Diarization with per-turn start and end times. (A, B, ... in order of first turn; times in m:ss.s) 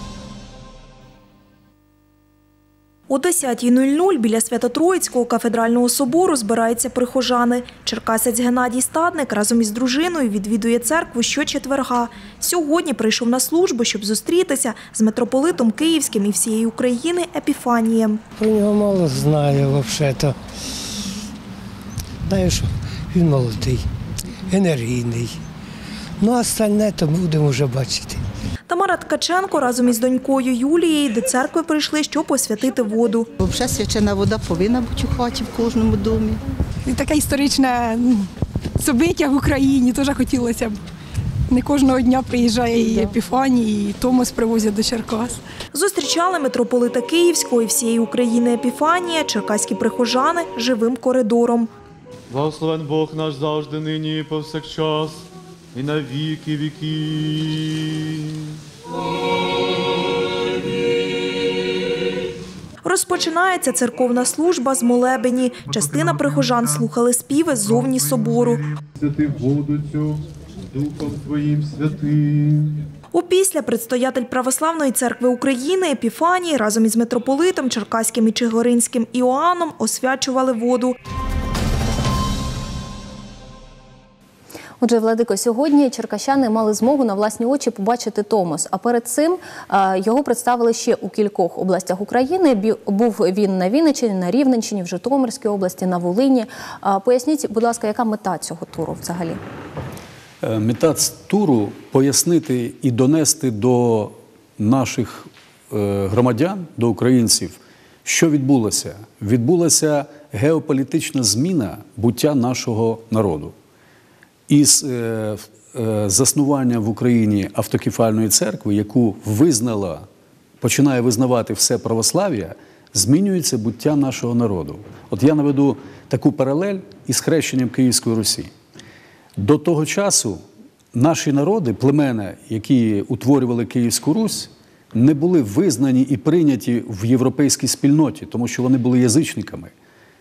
0:03.1-0:18.2 A
0:18.4-0:20.4 B
0:22.3-0:23.9 B
0:24.5-0:25.4 B
0:26.2-0:28.2 B
0:28.7-0:33.3 A
0:33.4-0:36.4 C
0:36.8-0:40.8 D
0:41.5-0:45.4 D
0:45.7-0:51.7 A
0:52.3-0:58.6 E
1:02.8-1:08.6 A
1:05.9-1:06.2 E
1:07.8-1:12.9 E
1:13.1-1:21.0 A
1:24.8-1:39.4 F
1:40.4-1:53.6 G
1:54.5-2:00.1 G
2:00.6-2:08.5 G
2:09.4-2:10.4 G
2:10.9-2:19.7 G